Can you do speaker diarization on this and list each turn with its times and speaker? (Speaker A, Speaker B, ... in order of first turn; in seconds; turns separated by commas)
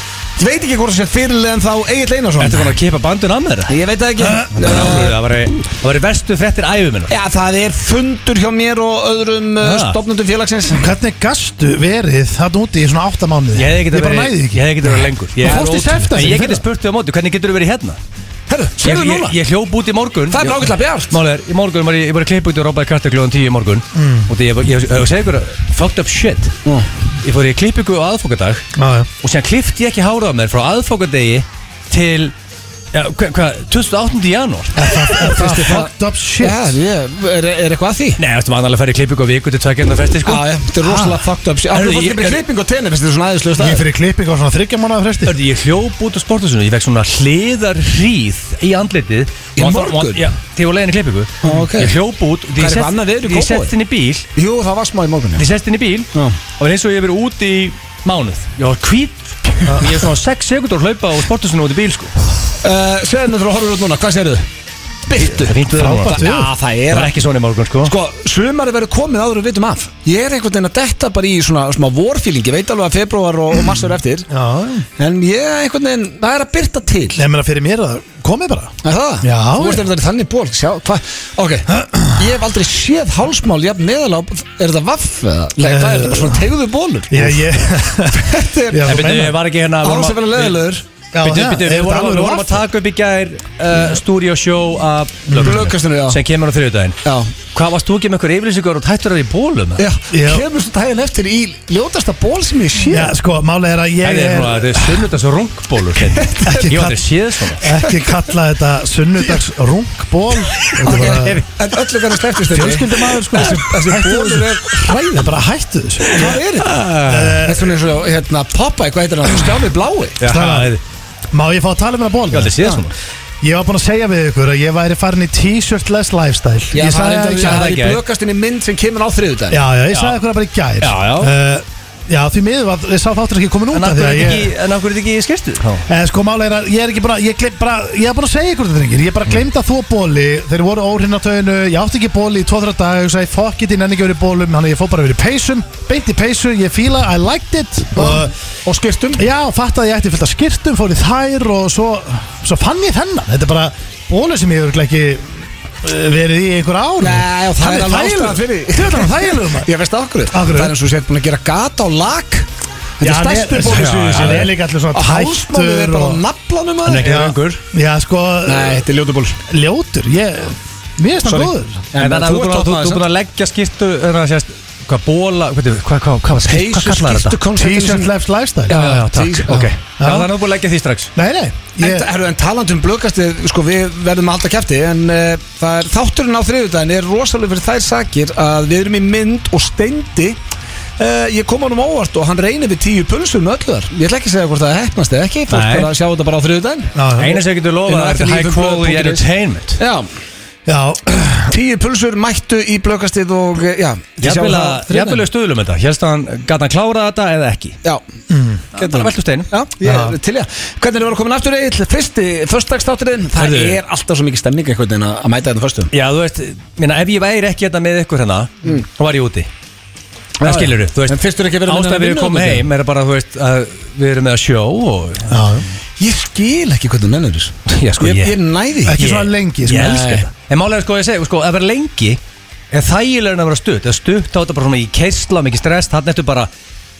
Speaker A: 0.4-2.7, Speaker B: 2.4-3.8, Speaker A: 3.7-5.2, Speaker C: 4.2-4.8, Speaker B: 4.5-7.1, Speaker A: 7.1-10.9, Speaker B: 9.6-10.0, Speaker C: 10.7-16.6, Speaker B: 13.6-18.0, Speaker A: 15.4-15.8, Speaker A: 18.5-19.4, Speaker B: 18.8-26.6, Speaker A: 20.3-21.1, Speaker C: 23.9-24.3, Speaker B: 27.2-28.6, Speaker C: 28.8-29.1, Speaker B: 29.2-32.3, Speaker B: 32.9-35.8, Speaker C: 34.8-36.7, Speaker A: 34.9-35.9, Speaker A: 36.4-38.2, Speaker B: 38.2-41.1, Speaker A: 40.2-43.9, Speaker B: 41.7-42.4, Speaker C: 43.6-45.4, Speaker B: 45.3-54.3, Speaker A: 49.6-50.2, Speaker A: 51.4-52.0, Speaker A: 52.6-53.7, Speaker A: 54.4-55.5, Speaker B: 55.4-62.1, Speaker C: 59.7-59.9, Speaker A: 62.6-64.5, Speaker A: 65.1-67.2, Speaker B: 65.2-66.4, Speaker C: 65.7-66.5, Speaker B: 66.9-67.9, Speaker A: 67.8-74.3, Speaker C: 74.3-74.9, Speaker A: 75.0-77.2, Speaker C: 77.2-79.9, Speaker A: 78.8-87.4, Speaker C: 81.7-82.2, Speaker C: 85.6-86.4, Speaker C: 87.1-89.4, Speaker A: 88.1-89.1, Speaker B: 88.8-90.7, Speaker A: 89.8-90.8, Speaker C: 91.1-92.6, Speaker B: 91.2-97.0, Speaker C: 95.3-95.6, Speaker A: 95.3-96.2, Speaker A: 97.0-97.3, Speaker B: 97.5-99.8, Speaker A: 99.8-103.1, Speaker C: 100.1-100.5, Speaker C: 102.8-105.0, Speaker B: 104.0-107.7, Speaker A: 106.1-106.7, Speaker C: 106.5-111.5, Speaker A: 110.8-115.3, Speaker B: 110.8-111.5, Speaker C: 112.5-116.4, Speaker A: 116.1-116.8, Speaker B: 116.2-117.4, Speaker C: 117.0-117.8, Speaker A: 117.4-120.2, Speaker B: 120.2-120.8, Speaker C: 120.2-120.8, Speaker C: 121.3-122.8, Speaker B: 122.3-122.9, Speaker C: 123.4-127.7, Speaker A: 126.7-129.6, Speaker B: 127.3-128.0, Speaker C: 129.5-134.5, Speaker B: 129.9-130.2, Speaker B: 130.8-131.3, Speaker B: 133.7-135.8, Speaker C: 135.9-148.3, Speaker A: 148.0-149.2, Speaker C: 149.2-159.7, Speaker A: 157.0-162.5, Speaker C: 160.3-160.8, Speaker A: 163.0-167.1, Speaker C: 163.0-166.2, Speaker B: 163.6-164.5, Speaker B: 166.9-167.6, Speaker C: 167.0-168.9, Speaker A: 168.5-169.4, Speaker C: 169.5-171.8, Speaker A: 171.2-173.0, Speaker B: 171.9-177.4, Speaker A: 176.4-178.1, Speaker C: 177.6-178.8, Speaker A: 178.7-179.7, Speaker B: 178.7-181.1, Speaker C: 179.5-180.3, Speaker C: 181.2-182.1, Speaker A: 181.8-190.4, Speaker A: 191.0-199.2, Speaker B: 195.5-195.9, Speaker C: 196.9-197.4, Speaker B: 197.2-199.8, Speaker A: 199.8-200.1, Speaker C: 200.7-201.5, Speaker A: 201.5-205.2, Speaker B: 204.2-207.8, Speaker C: 208.3-208.7, Speaker B: 208.8-209.5, Speaker A: 208.8-215.9, Speaker C: 209.8-210.2, Speaker B: 213.4-213.8, Speaker B: 215.9-219.5, Speaker A: 220.4-222.7, Speaker B: 220.4-225.5, Speaker C: 225.3-225.7, Speaker A: 226.0-229.0, Speaker B: 227.7-228.4, Speaker C: 228.9-230.1, Speaker B: 229.0-232.2, Speaker A: 229.8-230.2, Speaker B: 232.7-236.5